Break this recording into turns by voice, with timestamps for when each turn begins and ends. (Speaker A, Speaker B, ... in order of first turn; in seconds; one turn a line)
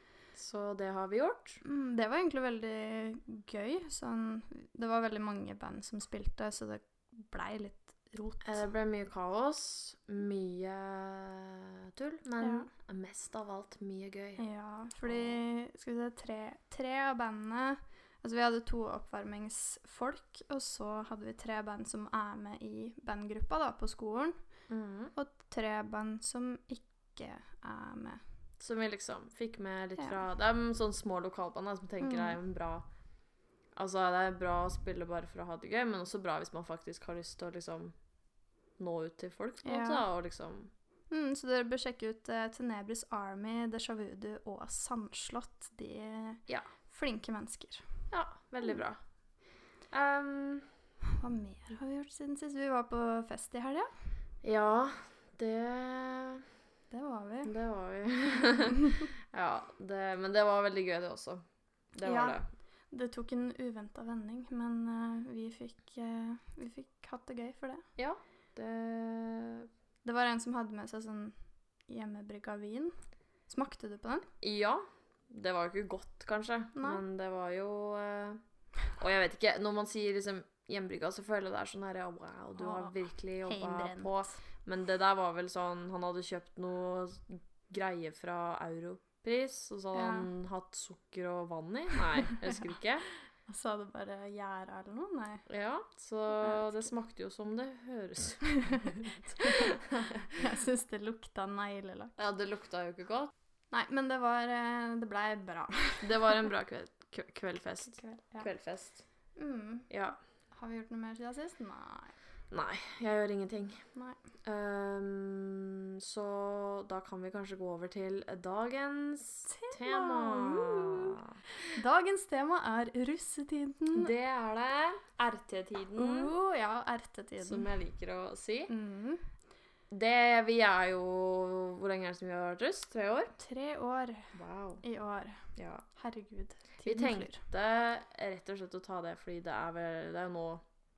Speaker A: 0.3-1.6
Speaker B: 1.6-8.7
Speaker A: 8.4-14.5
Speaker B: 12.4-12.7
Speaker B: 14.4-24.5
Speaker A: 15.0-15.4
Speaker A: 24.7-25.1
Speaker B: 25.1-28.2
Speaker A: 28.6-32.9
Speaker B: 32.0-32.4
Speaker A: 33.7-38.0
Speaker A: 38.8-40.7
Speaker B: 39.6-40.0
Speaker B: 41.1-48.1
Speaker A: 48.1-49.0
Speaker A: 49.9-50.7
Speaker B: 51.2-53.9
Speaker A: 54.4-56.5
Speaker B: 56.9-57.5
Speaker A: 57.5-62.5
Speaker B: 62.0-67.9
Speaker A: 68.0-69.7
Speaker B: 70.0-73.0
Speaker B: 73.5-74.3
Speaker A: 74.4-93.1
Speaker B: 76.8-77.0
Speaker B: 82.6-84.4
Speaker B: 89.9-90.3
Speaker B: 92.4-92.7
Speaker B: 93.5-95.5
Speaker A: 95.5-100.2
Speaker B: 96.4-96.7
Speaker B: 98.7-99.8
Speaker B: 100.3-102.2
Speaker A: 102.2-103.3
Speaker B: 103.7-106.5
Speaker A: 106.0-109.0
Speaker B: 107.8-108.5
Speaker B: 109.4-109.9
Speaker A: 109.9-110.2
Speaker B: 110.5-112.2
Speaker A: 112.5-113.9
Speaker A: 114.4-121.4
Speaker B: 119.5-121.2
Speaker B: 121.7-124.1
Speaker A: 123.9-126.3
Speaker B: 126.0-127.7
Speaker A: 127.4-128.7
Speaker B: 128.7-129.3
Speaker A: 129.9-133.4
Speaker B: 133.4-137.4
Speaker A: 134.3-134.8
Speaker A: 135.6-135.8
Speaker A: 136.8-140.6